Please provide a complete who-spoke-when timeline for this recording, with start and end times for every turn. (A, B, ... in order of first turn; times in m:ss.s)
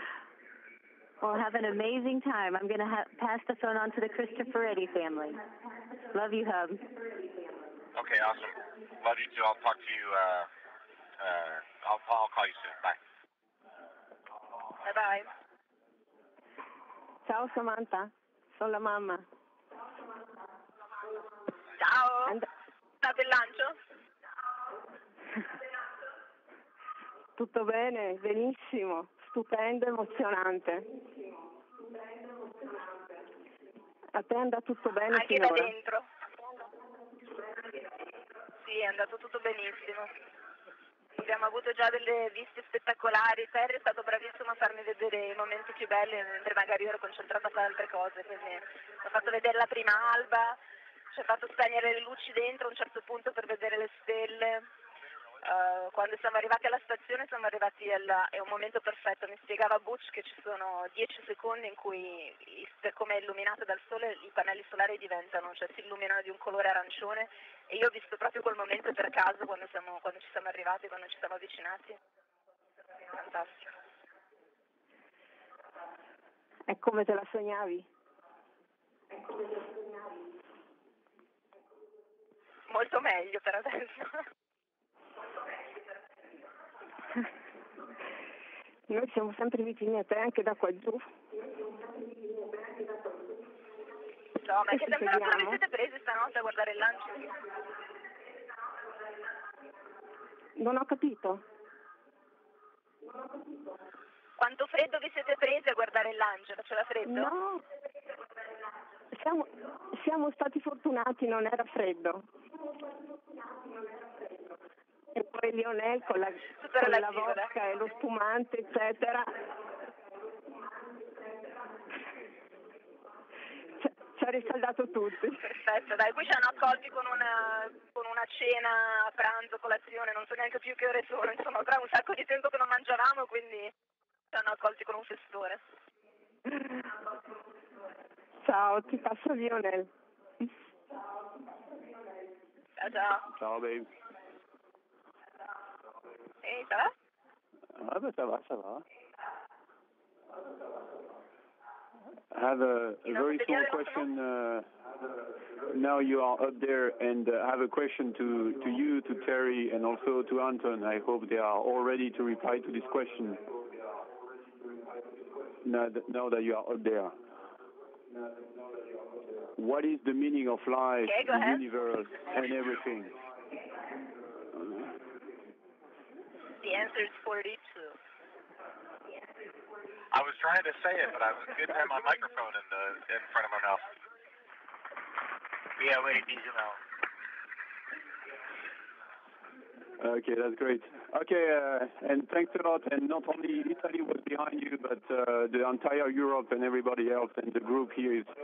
0:01.2-0:05.4 A
0:06.1-0:06.8 A
0:08.0-0:10.5 B
0:11.2-0:13.0 B
0:14.8-0:15.3 C
0:17.3-0:19.2 D
0:21.8-0:22.4 C
0:23.0-0:23.8 C
0:27.4-0:30.9 D
0:34.1-0:35.8 D
0:35.1-0:36.1 C
0:38.6-0:40.1 C
0:41.2-0:50.6 C
0:51.1-0:54.7 C
0:55.4-1:12.0 C
1:13.1-1:13.6 C
1:16.7-1:17.9 D
1:22.7-1:24.2 C
1:28.9-1:31.1 D
1:34.4-1:37.4 C
1:34.7-1:35.6 D
1:40.6-1:41.4 D
1:44.4-1:47.3 C
1:47.0-1:47.6 D
1:49.2-1:52.3 D
1:55.2-1:59.3 D
1:56.6-1:57.5 C
2:03.8-2:05.4 D
2:05.4-2:13.7 C
2:14.3-2:15.6 C
2:18.4-2:19.9 D
2:22.8-2:23.3 C
2:23.4-2:23.9 E
2:26.4-2:26.9 C
2:27.8-2:28.8 E
2:32.3-2:34.7 E
2:33.0-2:34.1 C
2:35.7-2:43.4 E
2:45.6-2:47.1 E
2:49.6-2:53.1 E
2:51.0-2:51.6 C
2:54.5-2:54.9 E
2:56.6-2:58.0 C
3:00.1-3:03.9 B
3:05.8-3:06.8 B
3:10.0-3:18.3 E